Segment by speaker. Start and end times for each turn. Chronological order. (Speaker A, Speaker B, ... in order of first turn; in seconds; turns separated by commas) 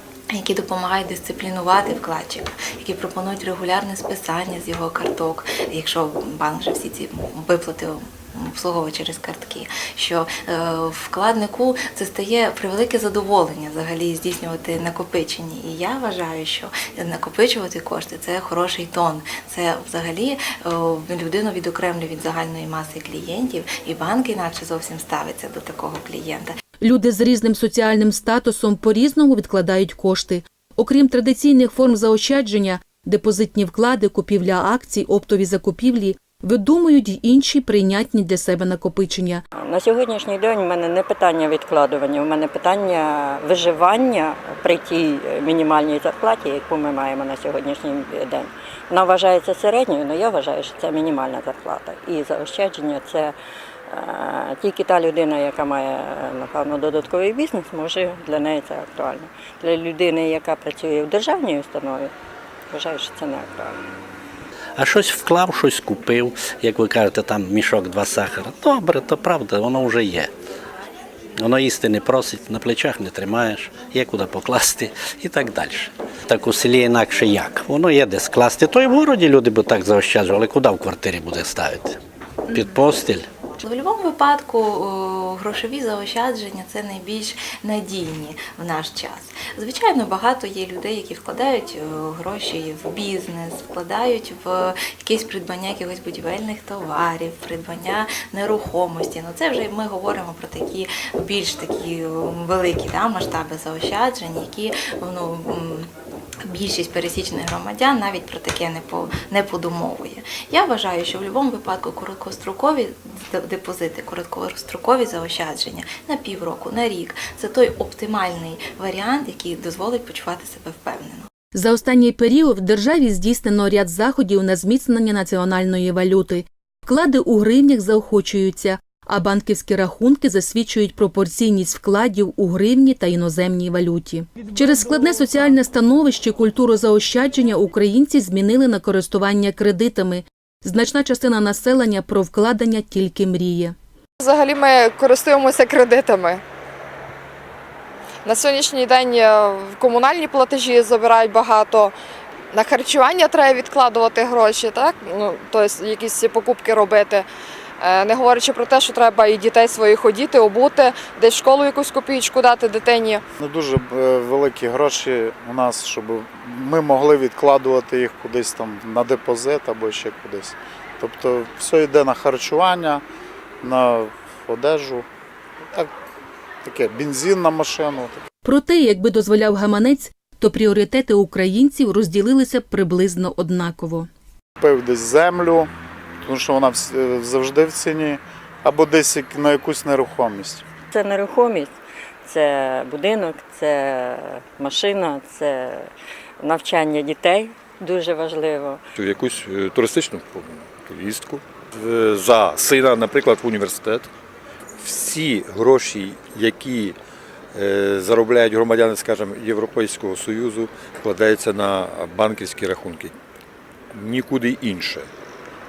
Speaker A: 0.3-26.5, Speaker B: 26.8-39.4, Speaker C: 39.6-53.3, Speaker C: 53.9-62.1, Speaker C: 62.7-63.8, Speaker D: 64.8-70.3, Speaker D: 71.4-81.9, Speaker D: 82.5-83.2, Speaker A: 83.6-105.9, Speaker A: 106.4-121.3, Speaker B: 121.5-143.7, Speaker E: 144.2-146.4, Speaker E: 148.2-151.9, Speaker E: 152.5-157.3, Speaker E: 157.8-163.2, Speaker F: 163.4-173.0, Speaker F: 173.6-175.0, Speaker F: 176.6-178.2, Speaker B: 178.4-184.1, Speaker F: 184.6-185.7, Speaker F: 186.2-190.6, Speaker C: 190.9-195.9, Speaker C: 196.4-198.8, Speaker G: 199.0-204.1, Speaker G: 204.8-206.9, Speaker G: 207.5-213.1, Speaker G: 213.9-215.1